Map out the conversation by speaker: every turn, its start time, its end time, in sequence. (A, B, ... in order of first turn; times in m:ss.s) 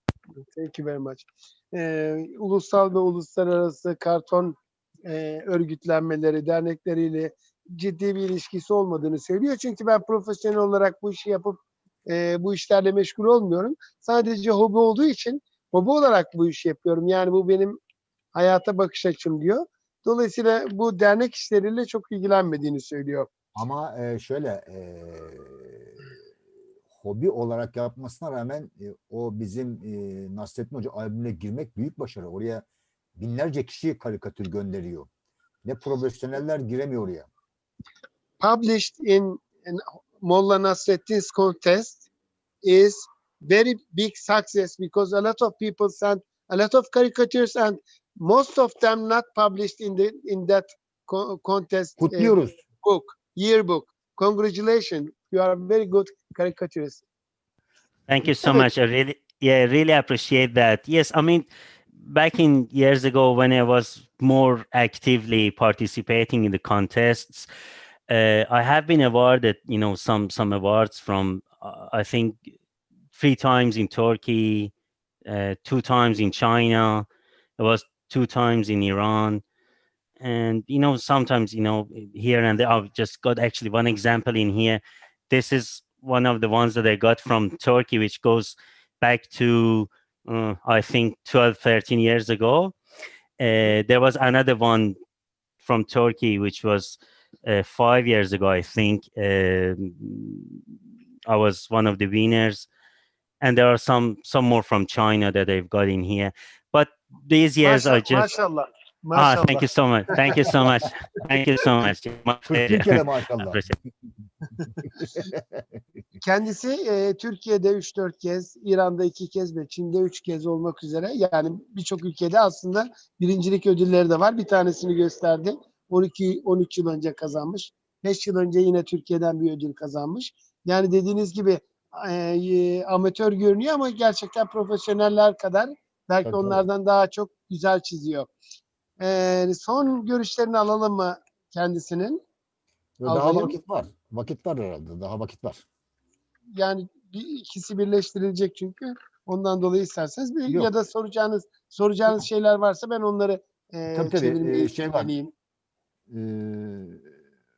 0:00.5-0:17.8 A
0:18.4-0:23.3 A
0:23.5-0:26.0 B
0:27.0-0:32.6 B
0:33.2-0:35.1 B
0:35.6-0:37.3 B
0:38.4-0:42.0 A
0:42.6-0:57.0 A
0:52.0-0:52.6 B
0:58.1-1:01.5 C
0:58.4-0:58.6 A
1:02.0-1:07.5 C
1:08.1-1:12.4 C
1:13.1-1:14.7 C
1:15.2-1:17.1 C
1:17.6-1:19.4 C
1:20.2-1:32.8 C
1:33.4-1:35.0 C
1:35.6-1:40.6 C
1:41.3-1:42.7 C
1:43.4-1:48.3 C
1:47.6-1:50.5 A
1:49.1-1:53.7 C
1:52.5-1:53.6 B
1:55.0-1:55.6 B
1:56.2-2:18.3 A
2:16.2-2:16.6 B
2:19.0-2:22.2 A
2:23.0-2:25.6 B
2:23.0-2:23.6 A
2:26.5-2:35.3 A
2:33.9-2:35.1 B
2:36.1-2:37.0 B